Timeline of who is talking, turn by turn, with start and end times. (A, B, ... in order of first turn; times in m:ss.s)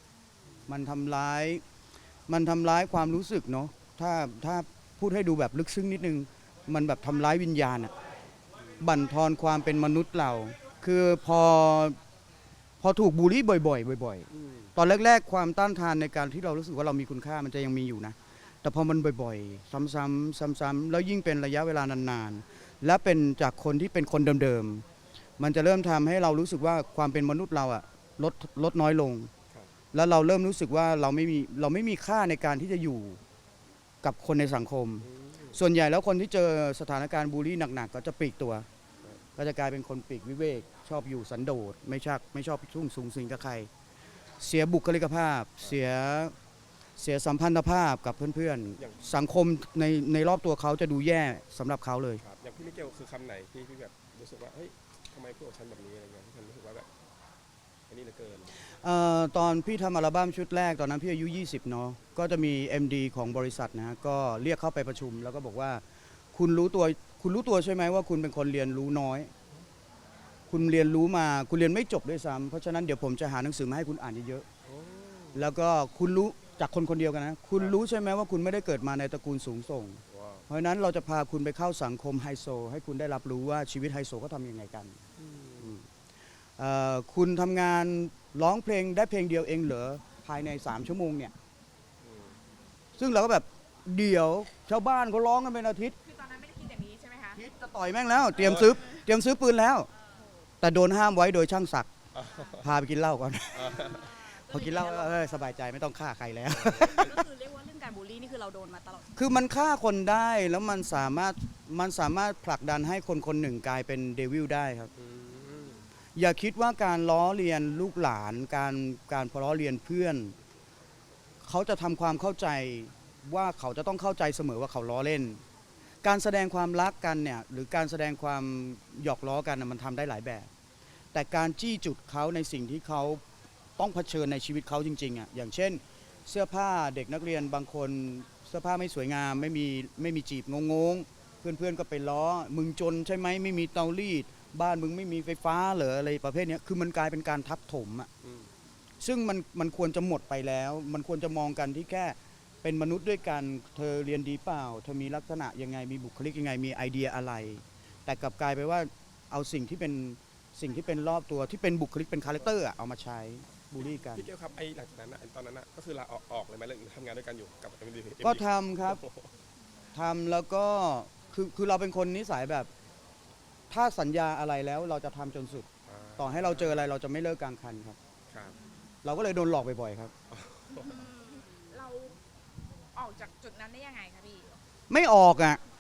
0:00.7-0:01.6 A
0:02.3-0:07.9 A
0:08.8-0:12.0 A
0:12.8-0:24.8 A
0:14.3-0:14.7 B
0:25.4-0:29.3 A
0:29.9-0:33.2 A
0:34.0-0:38.7 A
0:35.0-0:35.6 B
0:39.4-0:43.7 A
0:44.4-0:46.3 A
0:47.0-0:52.2 A
0:48.8-0:49.0 B
0:52.2-0:56.9 B
0:57.9-0:58.6 B
0:58.8-1:05.8 A
1:06.3-1:09.3 A
1:10.5-1:14.4 A
1:14.6-1:15.4 B
1:15.3-1:25.0 A
1:20.1-1:20.4 B
1:25.2-1:25.8 B
1:26.6-1:31.3 A
1:32.0-1:32.3 B
1:33.0-1:36.0 A
1:36.0-1:37.4 C
1:37.3-1:39.9 A
1:38.4-1:38.7 B
1:40.6-1:41.9 A
1:42.1-1:42.7 B
1:42.6-1:47.2 A
1:43.5-1:44.2 B
1:44.0-1:45.3 C
1:46.5-1:47.1 B
1:46.8-1:49.1 C
1:49.1-1:54.9 A
1:55.0-1:55.8 B
1:56.1-2:00.3 A
2:01.4-2:05.4 A
2:06.0-2:10.5 A
2:11.1-2:13.2 A
2:13.8-2:28.1 A
2:28.2-2:28.5 B
2:29.0-2:44.2 A
2:44.0-2:49.3 B
2:48.2-2:49.0 A
2:49.9-2:52.7 A
2:53.7-2:55.7 A
2:55.9-2:56.8 B
2:56.2-2:58.0 A
2:58.3-2:58.6 B
2:59.0-3:00.1 A
3:00.3-3:00.9 B
3:00.8-3:02.2 C
3:03.0-3:04.6 C
3:04.9-3:05.6 A